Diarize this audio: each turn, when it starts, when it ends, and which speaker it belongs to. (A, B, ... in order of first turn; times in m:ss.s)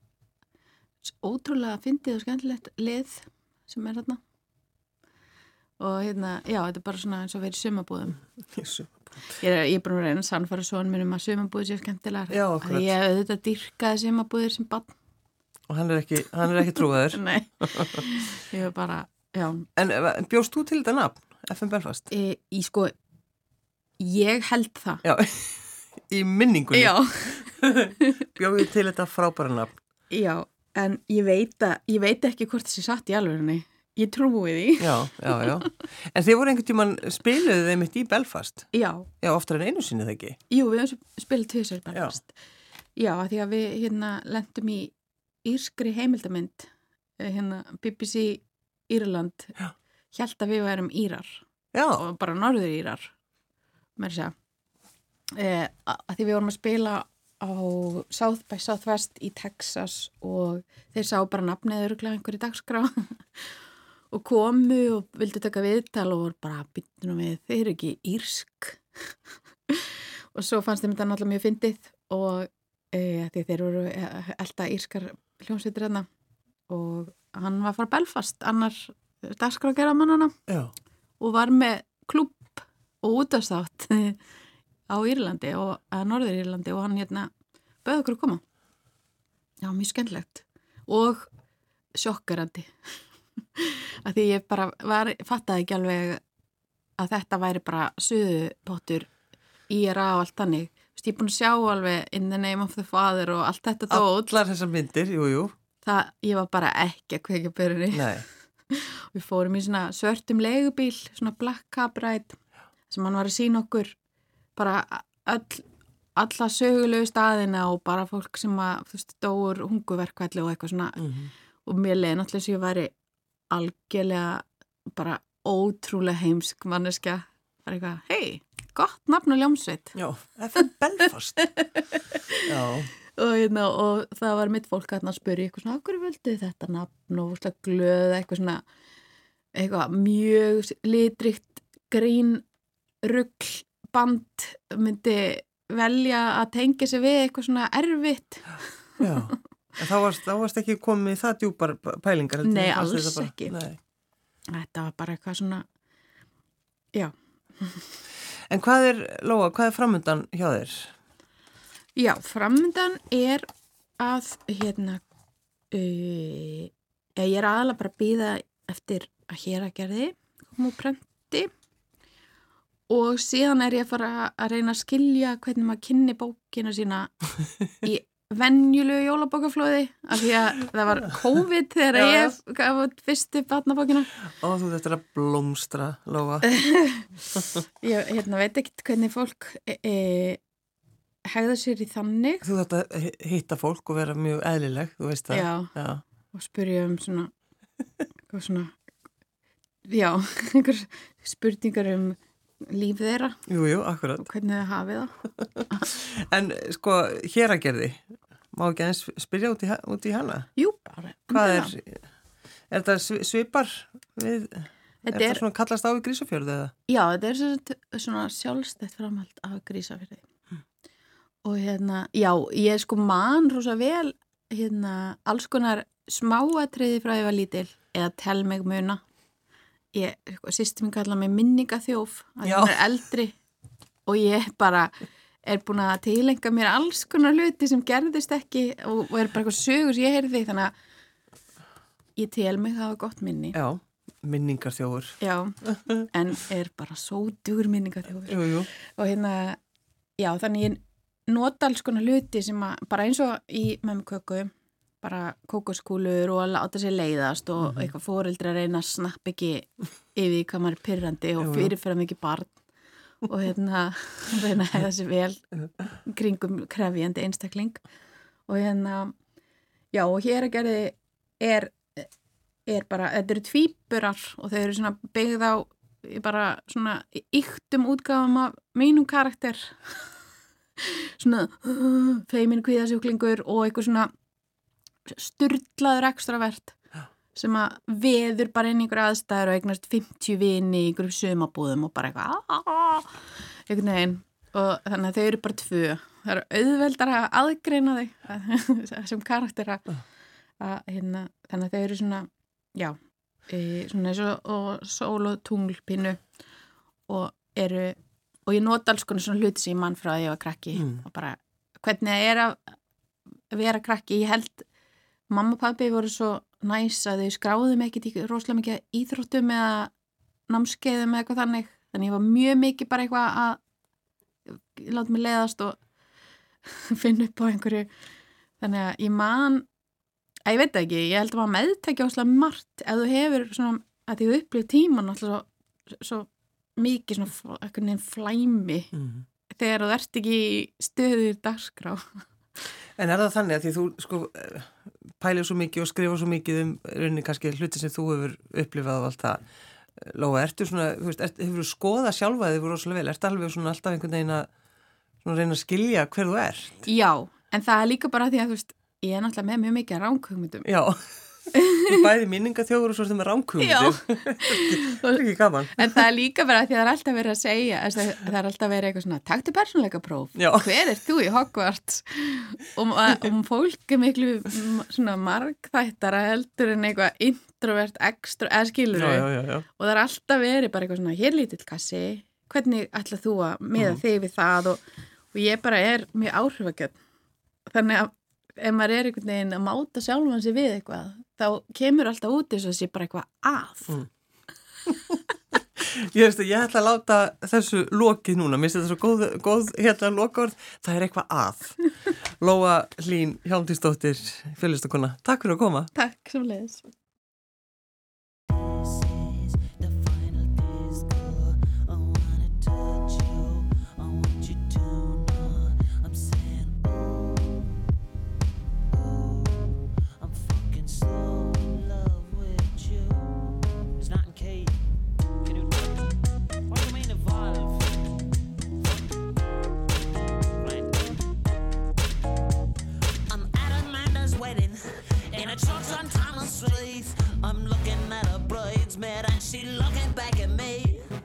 0:01.0-0:04.2 A
0:05.8-0:08.2 A
0:08.5-0:09.3 B
0:09.4-0:15.0 A
0:12.3-0:12.9 B
0:15.7-0:18.0 B
0:17.1-0:19.7 A
0:19.8-0:22.1 B
0:22.1-0:22.9 A
0:24.0-0:25.0 A
0:25.0-0:29.8 B
0:26.7-0:28.2 A
0:30.1-0:35.7 A
0:34.8-0:40.4 B
0:38.7-0:39.1 A
0:40.5-0:42.4 A
0:43.0-0:44.9 A
0:45.4-0:49.6 A
0:50.1-0:51.4 A
0:51.7-0:52.0 B
0:52.0-0:53.1 A
0:54.0-0:54.3 A
0:55.3-1:03.5 A
1:04.1-1:08.8 A
1:09.7-1:16.1 A
1:16.7-1:20.4 A
1:20.5-1:20.7 B
1:21.2-1:24.2 A
1:24.9-1:27.3 A
1:27.8-1:28.4 A
1:29.6-1:31.3 A
1:32.0-1:32.7 A
1:33.6-1:36.2 A
1:37.0-1:39.1 A
1:39.7-1:44.3 A
1:43.9-1:45.5 B
1:45.8-1:52.4 A
1:47.9-1:48.2 B
1:52.9-1:54.0 A
1:54.6-1:55.6 A
1:56.2-2:01.0 A
2:01.0-2:01.3 B
2:01.6-2:02.9 A
2:03.5-2:10.0 A
2:09.9-2:11.5 B
2:11.4-2:12.4 A
2:12.5-2:12.9 B
2:13.1-2:18.6 A
2:19.6-2:22.4 A
2:23.0-2:28.7 A
2:29.0-2:33.8 B
2:32.4-2:33.6 A
2:34.5-2:35.6 A
2:36.9-2:38.0 A
2:38.5-2:41.0 B
2:42.0-2:43.5 A
2:44.0-2:45.0 A
2:45.7-2:51.5 A
2:52.9-2:57.2 A
2:57.7-3:04.1 A
3:01.9-3:02.4 B
3:04.2-3:06.5 B
3:06.4-3:07.1 A
3:07.8-3:10.4 A
3:11.3-3:12.4 A
3:12.4-3:16.0 B
3:15.3-3:15.7 A
3:16.3-3:17.3 A
3:18.3-3:18.8 A
3:19.9-3:23.4 A
3:23.5-3:24.3 B
3:24.2-3:25.2 A
3:25.4-3:30.5 B
3:30.6-3:31.7 A
3:31.3-3:32.0 B
3:32.7-3:36.7 B
3:35.0-3:35.4 A
3:36.9-3:40.2 A
3:41.4-3:49.0 A
3:49.9-3:53.4 A
3:52.4-3:52.8 B
3:54.1-3:54.9 A
3:55.4-4:00.7 A
4:02.2-4:03.6 A
4:03.5-4:05.2 B
4:05.2-4:05.6 A
4:06.1-4:09.6 A
4:08.3-4:08.7 B
4:10.2-4:22.6 A
4:17.6-4:17.9 B
4:21.4-4:21.7 B
4:23.3-4:25.4 A
4:26.0-4:27.8 A
4:28.5-4:29.2 A
4:29.9-4:32.1 A
4:32.7-4:40.1 A
4:40.8-4:44.1 A
4:45.1-4:46.8 A
4:47.3-4:59.9 A
5:00.6-5:03.0 A
5:03.5-5:06.2 A
5:07.1-5:12.8 A
5:10.8-5:11.0 B
5:13.5-5:14.7 A
5:15.3-5:19.9 A
5:20.5-5:23.6 A
5:24.5-5:25.8 A
5:26.7-5:27.9 A
5:28.6-5:29.7 A
5:30.5-5:38.9 A
5:38.9-5:39.2 B
5:39.5-5:42.2 A
5:43.0-5:49.4 B
5:50.0-5:54.5 B
5:55.2-5:56.8 B
5:56.8-6:00.7 A
6:00.6-6:01.0 B
6:01.5-6:02.0 A
6:01.9-6:06.0 B
6:03.6-6:05.2 A
6:05.7-6:24.8 A
6:10.4-6:10.8 B
6:18.9-6:19.6 B
6:23.8-6:24.0 B
6:25.3-6:27.0 A
6:27.7-6:34.0 A
6:34.9-6:35.2 B
6:35.8-6:41.8 B
6:42.3-6:45.9 B
6:46.0-6:46.8 A
6:48.5-6:57.8 C
6:58.9-7:04.8 C
7:05.4-7:08.1 C
7:08.8-7:09.3 C
7:10.6-7:11.4 C
7:13.3-7:21.1 C